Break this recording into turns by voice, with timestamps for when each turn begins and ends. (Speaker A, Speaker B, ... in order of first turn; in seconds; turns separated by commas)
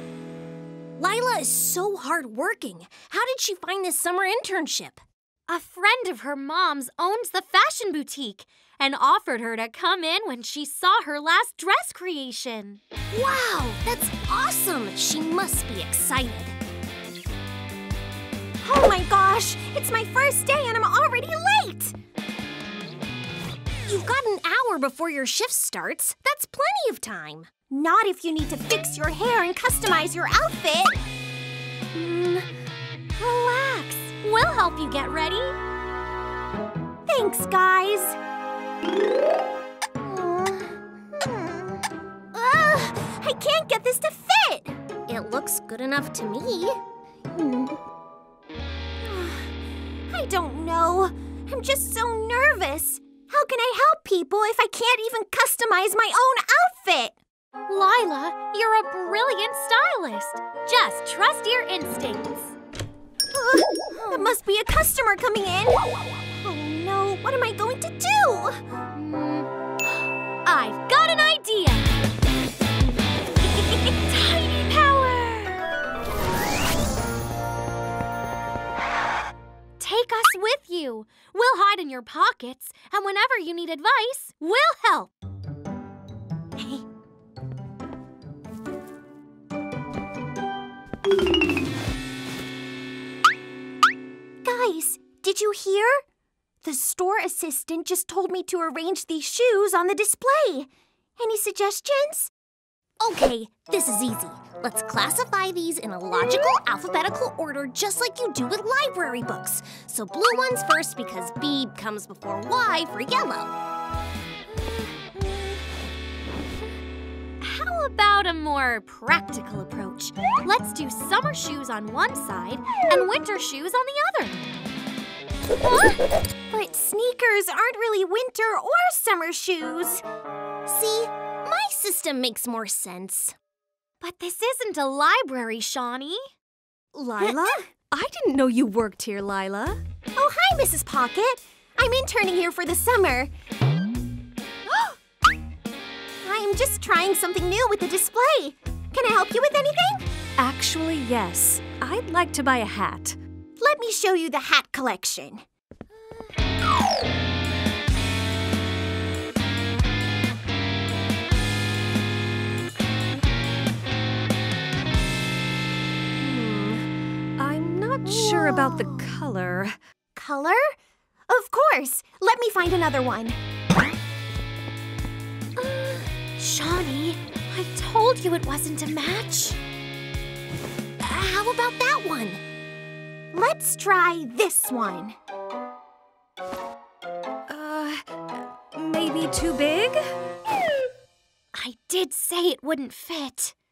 Speaker A: 1.0-5.0, Speaker B: 5.5-12.8, Speaker A: 13.1-16.6, Speaker C: 18.6-21.9, Speaker A: 23.9-27.6, Speaker C: 27.6-31.0, Speaker B: 33.2-35.6, Speaker C: 37.1-38.2, Speaker C: 40.0-44.8, Speaker A: 45.1-46.8, Speaker C: 47.3-47.8, Speaker C: 49.0-49.5, Speaker C: 50.1-57.2, Speaker B: 57.7-62.5, Speaker C: 63.3-65.8, Speaker B: 64.0-64.3, Speaker C: 66.3-68.6, Speaker B: 68.9-69.5, Speaker B: 70.4-71.9, Speaker B: 73.6-75.6, Speaker B: 79.8-85.1, Speaker C: 86.6-86.8, Speaker C: 94.4-96.0, Speaker C: 96.6-102.3, Speaker A: 103.0-113.5, Speaker B: 114.8-115.6, Speaker B: 117.4-124.4, Speaker B: 125.6-126.0, Speaker C: 126.5-130.0, Speaker A: 130.7-133.3, Speaker B: 134.0-136.3, Speaker D: 136.9-139.8, Speaker C: 137.2-137.6, Speaker C: 140.2-143.3, Speaker C: 146.2-150.1, Speaker D: 150.4-153.2, Speaker C: 153.6-155.4, Speaker D: 167.4-169.8, Speaker C: 168.0-169.1, Speaker C: 170.1-170.8, Speaker C: 171.3-173.4, Speaker B: 175.6-179.6, Speaker A: 181.0-182.4, Speaker C: 183.3-185.2, Speaker D: 187.5-190.0, Speaker B: 191.5-193.5